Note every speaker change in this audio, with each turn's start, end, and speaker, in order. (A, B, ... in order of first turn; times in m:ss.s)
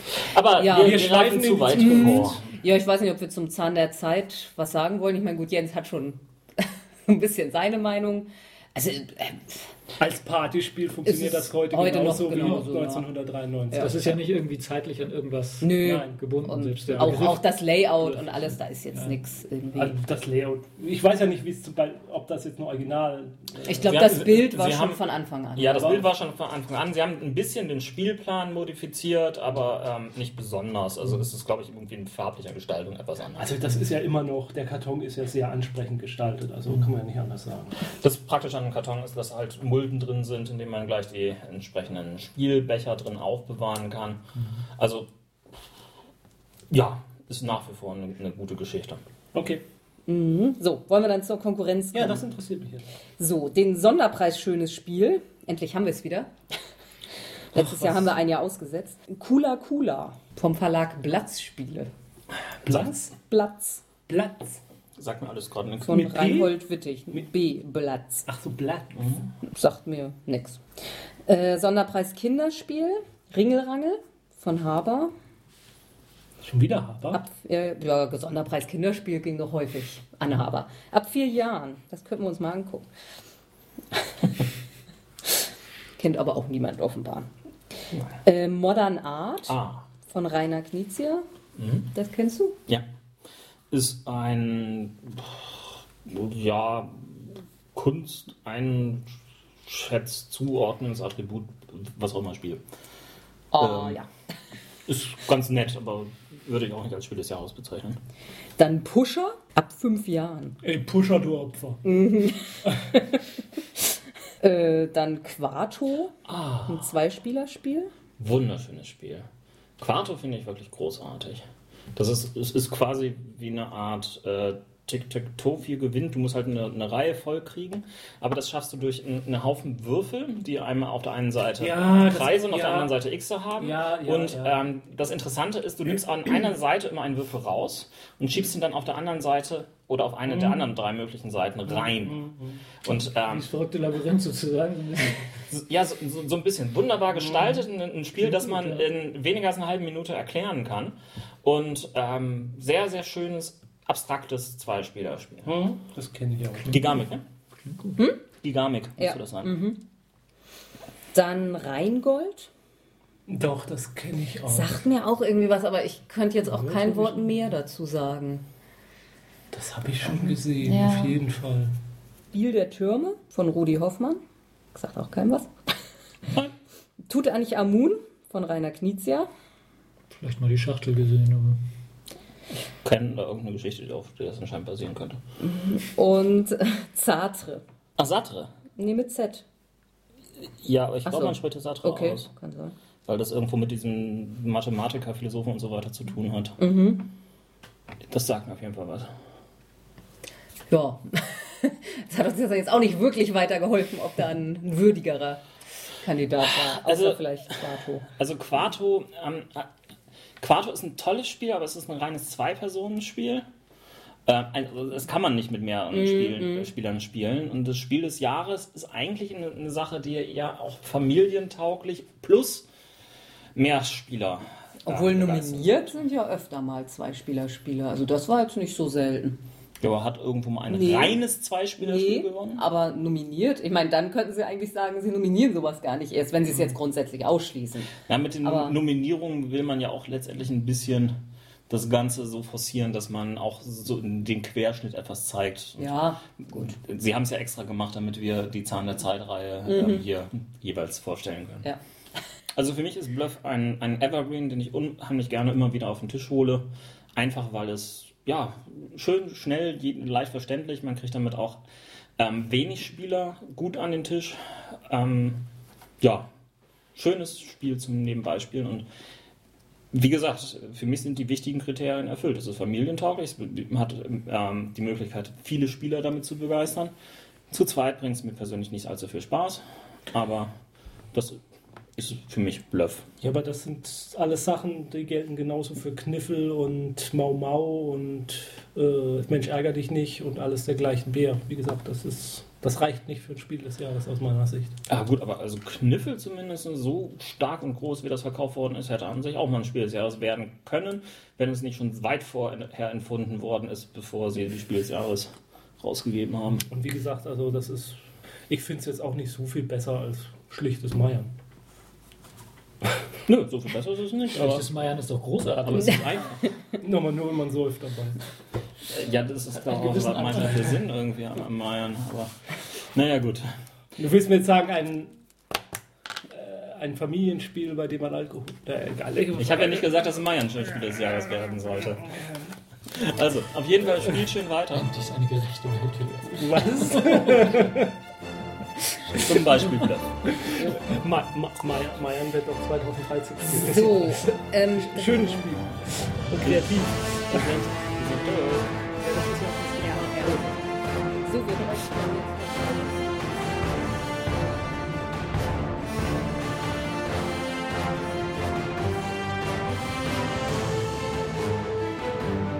0:00.2-0:02.4 A
0:00.6-0:01.0 B
0:00.6-0:02.4 C
0:01.7-0:09.7 B
0:10.0-0:14.2 C
0:11.0-0:13.1 B
0:13.7-0:18.3 D
0:15.6-0:20.0 B
0:15.8-0:16.2 C
0:16.9-0:17.3 C
0:19.8-0:24.1 C
0:23.6-0:26.0 B
0:23.8-0:25.0 A
0:25.6-0:33.5 A
0:33.4-0:37.7 C
0:38.0-0:44.2 A
0:44.8-0:45.1 A
0:46.7-0:49.0 A
0:49.3-0:49.6 C
0:50.1-0:52.2 B
0:51.9-0:52.8 C
0:53.2-0:56.3 B
0:57.5-1:01.9 B
0:57.6-0:58.1 C
1:02.6-1:03.1 C
1:02.6-1:02.9 A
1:03.2-1:03.8 B
1:04.1-1:04.6 C
1:05.0-1:06.2 A
1:05.8-1:08.2 B
1:05.9-1:06.6 C
1:08.2-1:09.1 C
1:09.5-1:10.6 B
1:11.3-1:15.1 B
1:16.4-1:17.2 C
1:17.1-1:22.9 B
1:26.0-1:27.3 B
1:28.2-1:29.6 B
1:29.5-1:29.8 A
1:30.1-1:31.2 B
1:31.6-1:31.9 A
1:31.9-1:32.6 B
1:33.7-1:39.0 A
1:39.6-1:42.6 A
1:43.5-1:44.1 B
1:43.6-1:44.0 A
1:44.9-1:48.0 A
1:48.6-1:50.6 B
1:50.6-1:51.8 C
1:51.8-1:53.2 B
1:54.4-1:56.1 B
1:56.2-1:56.9 A
1:56.7-1:57.9 B
1:58.2-1:59.2 A
1:59.8-2:01.4 A
2:01.9-2:22.2 A
2:11.6-2:12.9 C
2:13.6-2:14.6 C
2:20.3-2:20.6 C
2:21.7-2:22.6 C
2:22.8-2:23.5 A
2:23.3-2:25.3 D
2:25.5-2:35.5 A
2:28.2-2:28.8 D
2:35.4-2:36.8 C
2:36.7-2:37.2 A
2:37.6-2:38.0 D
2:38.4-2:39.6 A
2:39.0-2:39.8 B
2:41.1-2:42.5 B
2:43.3-2:44.8 C
2:44.5-2:48.4 B
2:46.6-2:47.1 D
2:49.5-2:51.7 C
2:50.1-2:51.2 B
2:52.3-2:54.2 B
2:54.7-2:55.5 B
2:57.1-2:59.3 B
3:00.1-3:01.6 D
3:02.5-3:05.2 A
3:05.4-3:07.6 B
3:08.0-3:08.5 A
3:08.8-3:09.4 B
3:10.6-3:12.3 A
3:11.0-3:12.7 B
3:13.0-3:16.6 A
3:16.6-3:17.1 B
3:18.1-3:19.1 A
3:20.7-3:25.4 B
3:26.0-3:28.1 B
3:26.5-3:27.2 A
3:28.1-3:29.7 A
3:30.4-3:33.4 A
3:34.2-3:42.6 A
3:35.9-3:36.7 B
3:43.5-3:45.9 A
3:44.8-3:49.4 B
3:49.8-3:52.6 A
3:50.7-3:51.2 B
3:51.8-3:57.9 B
3:58.0-4:01.1 A
3:58.4-3:58.8 B
4:01.7-4:05.9 A
4:05.8-4:06.7 B
4:06.4-4:11.6 A
4:09.6-4:10.0 B
4:12.5-4:21.6 A
4:22.2-4:25.4 A
4:26.0-4:26.3 A
4:26.9-4:28.8 A
4:29.9-4:36.9 A
4:37.5-4:40.5 A
4:41.1-4:41.4 A
4:42.0-4:43.0 A
4:43.2-4:54.7 C
4:54.9-5:06.6 A
5:06.7-5:07.9 C
5:08.5-5:11.3 C
5:13.2-5:14.6 A
5:14.3-5:16.4 D
5:15.6-5:16.4 A
5:16.8-5:18.2 C
5:18.9-5:22.3 A
5:19.7-5:20.8 D
5:22.9-5:23.4 A
5:24.0-5:25.2 C
5:26.3-5:29.9 C
5:29.4-5:32.1 A
5:32.9-5:34.9 A
5:34.7-5:37.3 D
5:36.3-5:37.9 C
5:39.1-5:40.3 A
5:40.4-5:47.5 C
5:40.9-5:41.2 A
5:43.6-5:45.4 B
5:46.4-5:46.7 A
5:47.3-5:48.7 A
5:49.0-5:50.6 C
5:49.9-5:50.4 B
5:51.2-5:53.0 B